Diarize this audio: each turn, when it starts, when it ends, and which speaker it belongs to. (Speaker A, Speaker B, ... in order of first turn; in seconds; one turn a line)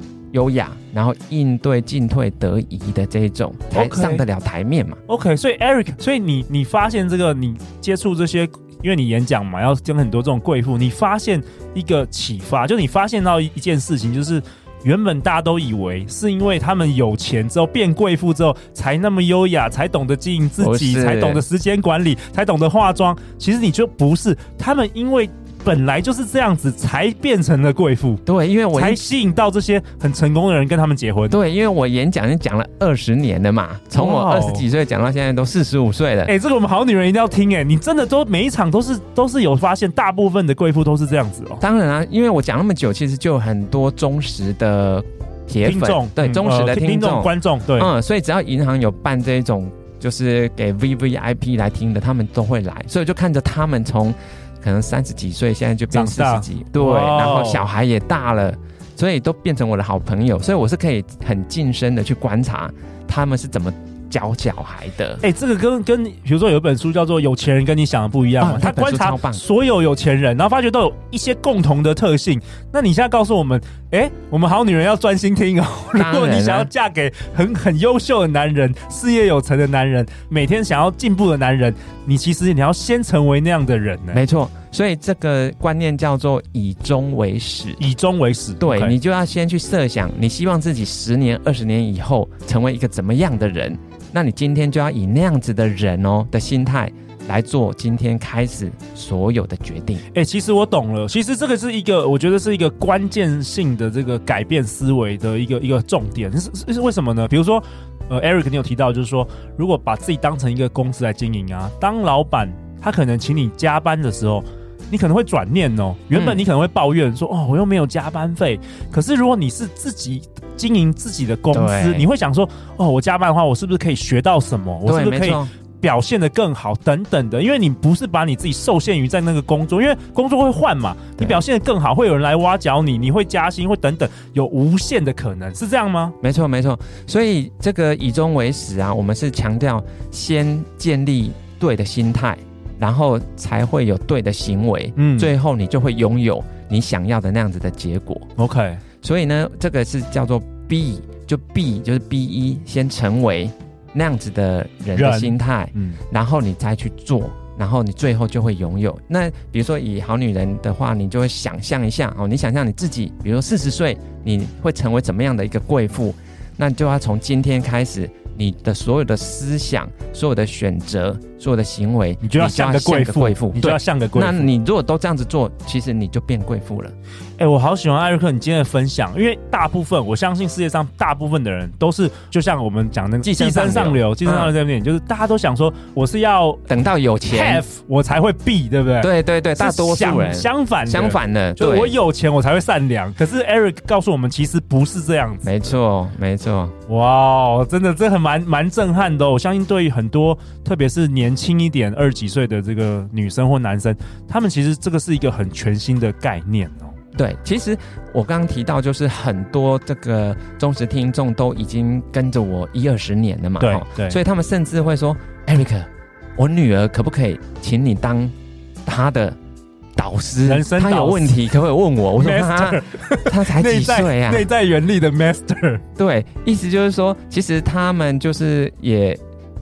Speaker A: 0.3-5.0
Speaker B: 3.7-4.2
Speaker B: 5.1-28.2
Speaker A: 20.6-21.4
Speaker A: 28.3-29.0
Speaker B: 28.7-31.4
Speaker A: 31.3-36.3
Speaker B: 34.0-34.7
Speaker B: 36.3-41.6
Speaker A: 41.6-65.2
Speaker B: 45.6-47.9
Speaker B: 55.9-57.6
Speaker B: 65.2-84.2
Speaker A: 68.4-69.4
Speaker A: 75.9-76.7
Speaker A: 84.1-87.8
Speaker B: 87.8-89.0
Speaker A: 88.6-100.0
Speaker B: 100.1-136.2
Speaker A: 116.1-116.4
Speaker A: 121.5-122.1
Speaker A: 124.8-125.5
Speaker A: 131.2-131.4
Speaker A: 136.2-148.3
Speaker B: 145.0-145.3
Speaker B: 148.4-148.8
Speaker A: 149.0-176.9
Speaker B: 155.0-156.0
Speaker B: 172.2-174.5
Speaker B: 177.4-186.6
Speaker A: 183.2-184.5
Speaker A: 186.7-187.6
Speaker B: 187.3-195.7
Speaker A: 189.0-191.9
Speaker A: 195.4-196.7
Speaker B: 196.9-207.0
Speaker A: 207.2-218.3
Speaker B: 213.6-214.2
Speaker A: 218.9-219.4
Speaker A: 220.0-224.5
Speaker B: 220.4-221.4
Speaker B: 222.2-225.8
Speaker A: 226.0-229.2